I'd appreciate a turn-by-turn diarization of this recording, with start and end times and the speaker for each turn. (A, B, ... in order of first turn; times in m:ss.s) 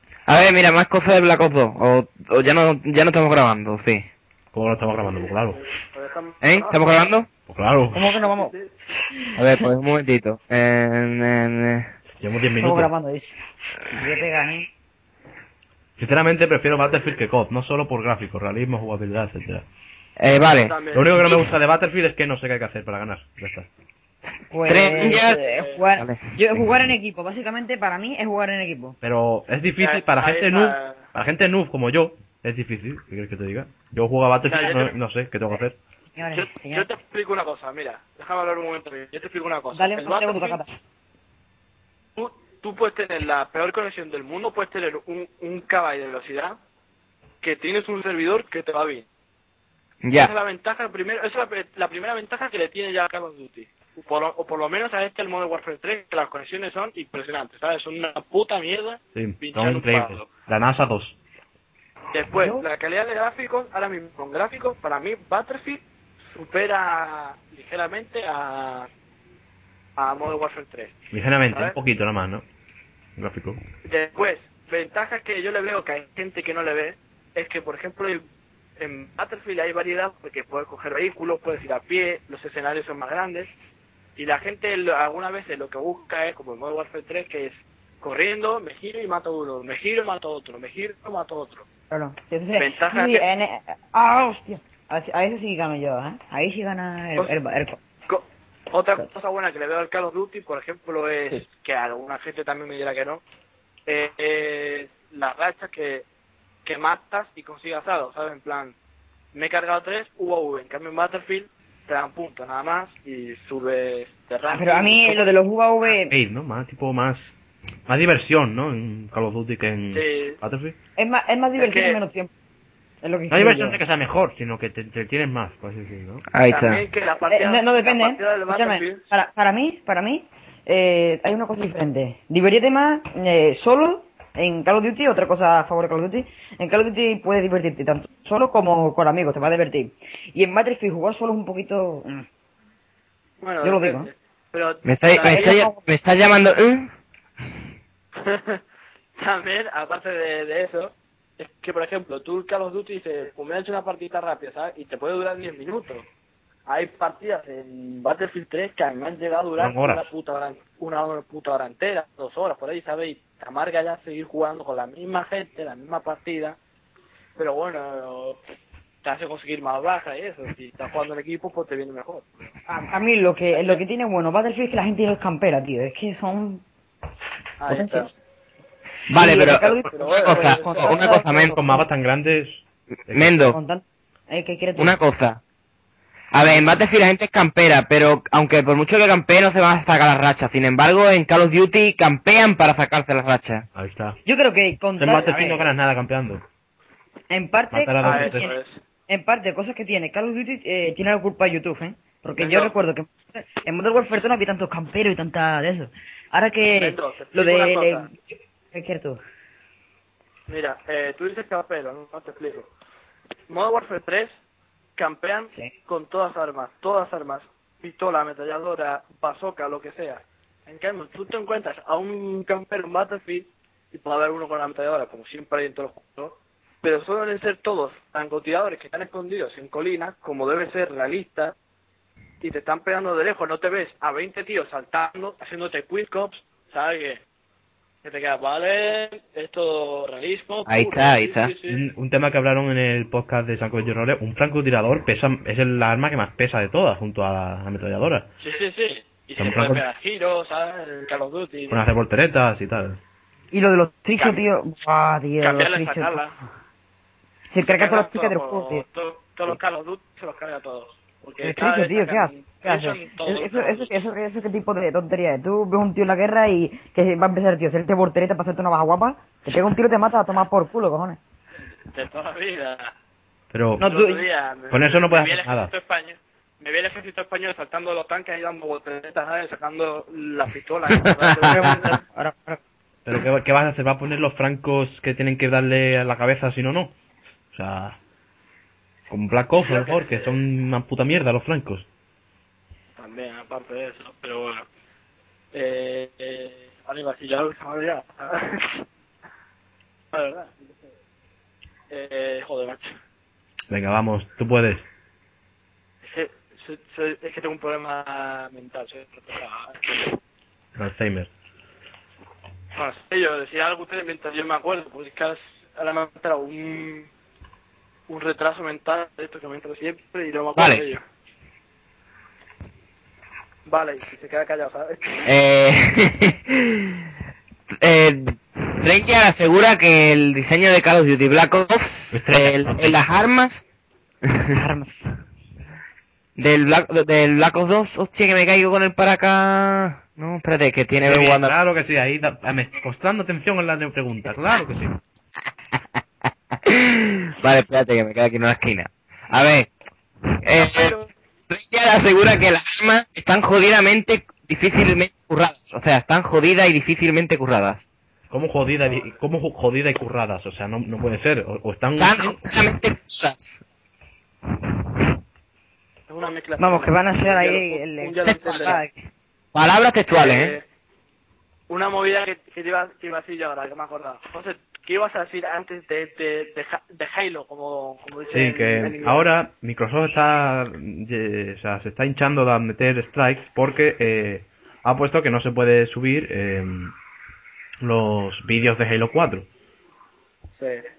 0:00.3-0:04.1 A
0:04.5-0:05.6 B
0:05.0-0:07.1 C
0:06.4-0:07.3 A
0:07.5-0:08.2 B
0:07.9-0:09.7 D
0:08.1-0:08.7 C
0:09.4-0:11.9 A
0:12.2-0:12.9 B
0:12.6-0:13.4 D
0:13.9-0:14.7 D
0:16.0-0:19.6 B
0:20.2-0:21.5 A
0:20.4-0:21.1 C
0:20.9-0:23.7 B
0:24.5-0:29.0 D
0:24.7-0:26.3 A
0:24.9-0:25.8 C
0:29.0-0:35.8 B
0:29.8-0:31.1 C
0:34.5-0:35.0 C
0:36.1-0:36.9 D
0:36.3-0:40.6 C
0:39.7-0:40.7 D
0:42.2-0:46.6 C
0:47.4-0:49.1 C
0:50.0-0:50.3 A
0:50.1-1:00.3 C
0:59.2-1:01.2 B
1:02.1-1:08.9 C
1:02.4-1:02.6 D
1:10.0-1:11.0 C
1:11.1-1:12.4 B
1:11.5-1:11.8 C
1:13.2-1:13.6 B
1:13.8-1:18.2 C
1:18.8-1:23.5 C
1:24.2-1:31.6 C
1:31.9-1:37.8 D
1:32.6-1:33.3 C
1:38.1-1:43.2 C
1:43.9-1:46.0 C
1:46.6-1:48.8 C
1:49.3-1:55.3 C
1:54.5-1:56.2 D
1:56.1-1:57.3 B
1:57.9-2:00.8 B
1:59.9-2:00.4 C
2:01.0-2:02.3 D
2:01.6-2:02.0 C
2:03.0-2:03.8 D
2:03.3-2:06.2 B
2:06.3-2:06.8 A
2:06.5-2:09.0 C
2:07.3-2:22.3 D
2:23.4-2:25.6 C
2:23.6-2:24.1 D
2:24.8-2:26.9 A
2:25.2-2:25.8 D
2:28.2-2:28.6 C
2:29.2-2:36.1 C
2:36.7-2:46.6 C
2:39.6-2:40.1 B
2:47.4-2:48.4 C
2:49.0-2:52.3 C
2:52.7-2:56.6 D
2:53.5-2:53.8 C
2:57.6-2:58.1 C
2:57.7-2:58.1 D
2:59.1-3:01.6 A
2:59.1-3:01.9 D
2:59.9-3:01.1 C
3:01.5-3:03.6 B
3:03.1-3:03.6 A
3:03.5-3:05.0 D
3:04.8-3:05.4 A
3:06.3-3:13.7 A
3:13.8-3:14.2 B
3:14.3-3:15.7 D
3:15.0-3:16.4 B
3:17.3-3:18.6 D
3:17.7-3:18.5 B
3:18.0-3:18.8 C
3:19.1-3:29.2 D
3:22.4-3:22.8 C
3:26.8-3:28.1 C
3:30.5-3:32.7 C
3:33.5-3:34.4 C
3:35.0-3:51.6 C
3:52.4-3:57.2 C
3:58.0-4:01.8 C
4:00.7-4:01.5 A
4:01.7-4:08.3 B
4:08.4-4:11.8 C
4:09.4-4:09.8 B
4:11.7-4:13.0 B
4:13.5-4:16.2 D
4:14.2-4:14.5 C
4:15.4-4:16.4 C
4:17.5-4:18.8 D
4:17.6-4:24.0 C
4:21.4-4:31.2 D
4:31.8-4:32.9 C
4:33.5-4:33.8 B
4:33.8-4:34.2 D
4:33.8-4:42.0 C
4:34.7-4:35.7 B
4:41.5-4:42.6 D
4:43.1-4:46.9 B
4:47.5-4:48.0 B
4:49.1-4:51.9 B
4:49.6-4:50.4 C
4:53.0-4:54.7 C
4:55.5-4:58.8 C
5:00.1-5:00.8 C
5:01.9-5:02.9 C
5:03.7-5:04.8 B
5:06.0-5:10.2 C
5:10.8-5:11.3 B
5:12.8-5:17.1 C
5:18.1-5:21.0 C
5:20.6-5:20.8 A
5:23.7-5:25.3 C
5:25.2-5:26.9 A
5:27.7-5:33.6 A
5:32.1-5:33.0 B
5:34.3-5:34.6 A
5:34.5-5:35.1 D
5:36.4-5:41.5 A
5:41.0-5:45.0 B
5:46.6-5:49.7 A
5:50.4-5:51.0 A
5:50.6-5:51.1 C
5:51.5-5:57.8 A
5:58.3-6:02.5 B
6:02.0-6:03.6 A
6:06.1-6:08.8 C
6:06.6-6:09.0 D
6:09.5-6:10.6 A
6:10.1-6:10.6 C
6:11.7-6:19.3 C
6:18.3-6:27.0 B
6:27.8-6:29.5 B
6:30.6-6:30.8 C